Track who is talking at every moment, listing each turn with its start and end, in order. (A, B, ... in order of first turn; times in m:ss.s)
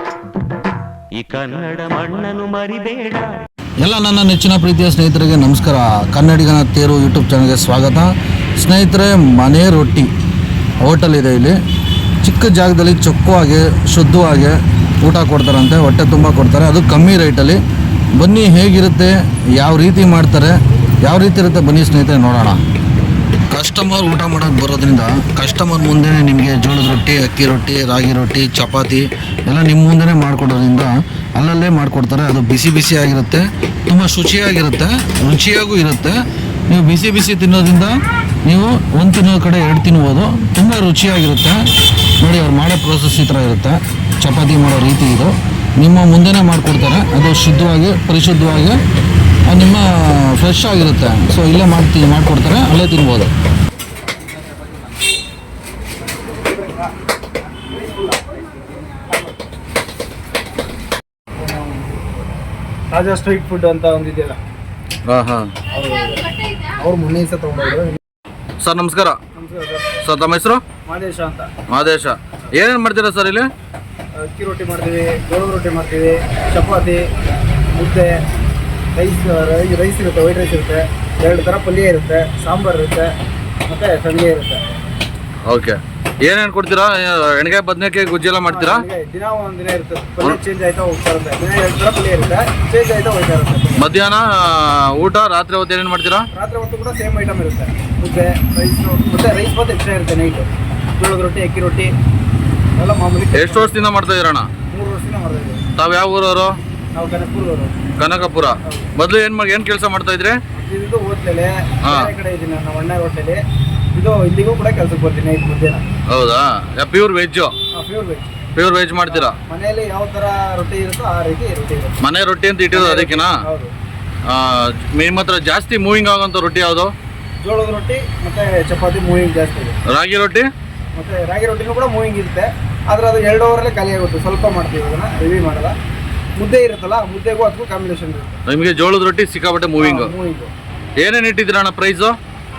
0:01.2-0:03.4 A
0:03.8-0:08.1 B
0:08.6-0:10.1 B
0:10.8-0:11.6 B
0:12.2-0:17.6 B
0:18.2-0:22.6 B
0:23.5-0:36.2 B
0:36.7-0:41.6 B
0:42.2-0:48.8 B
0:49.4-0:53.3 B
1:01.4-1:01.9 C
1:02.9-1:04.4 C
1:05.1-1:05.4 B
1:05.7-1:08.0 C
1:08.6-1:09.1 B
1:09.3-1:09.9 C
1:10.0-1:10.6 B
1:10.8-1:11.5 C
1:11.7-1:13.4 B
1:14.1-1:17.1 C
1:17.7-1:18.2 C
1:18.9-1:23.1 C
1:23.7-1:24.6 C
1:25.5-1:25.7 B
1:26.2-1:28.8 B
1:28.4-1:33.9 C
1:33.8-1:34.2 B
1:35.0-1:36.2 B
1:36.3-1:41.9 C
1:42.8-1:43.9 C
1:43.4-1:44.5 B
1:44.7-1:45.6 C
1:45.8-1:46.5 B
1:46.9-1:47.7 C
1:48.0-1:50.4 B
1:48.6-1:48.9 C
1:50.5-1:53.4 C
1:53.9-1:55.8 C
1:56.1-1:57.5 B
1:57.7-1:58.4 C
1:58.6-1:59.3 B
1:59.1-2:02.0 C
2:02.1-2:03.3 B
2:02.7-2:03.7 C
2:04.3-2:06.9 B
2:07.4-2:09.7 C
2:09.9-2:10.4 B
2:10.9-2:15.8 C
2:16.4-2:18.4 C
2:18.5-2:20.0 B
2:19.8-2:20.5 C
2:21.0-2:22.1 B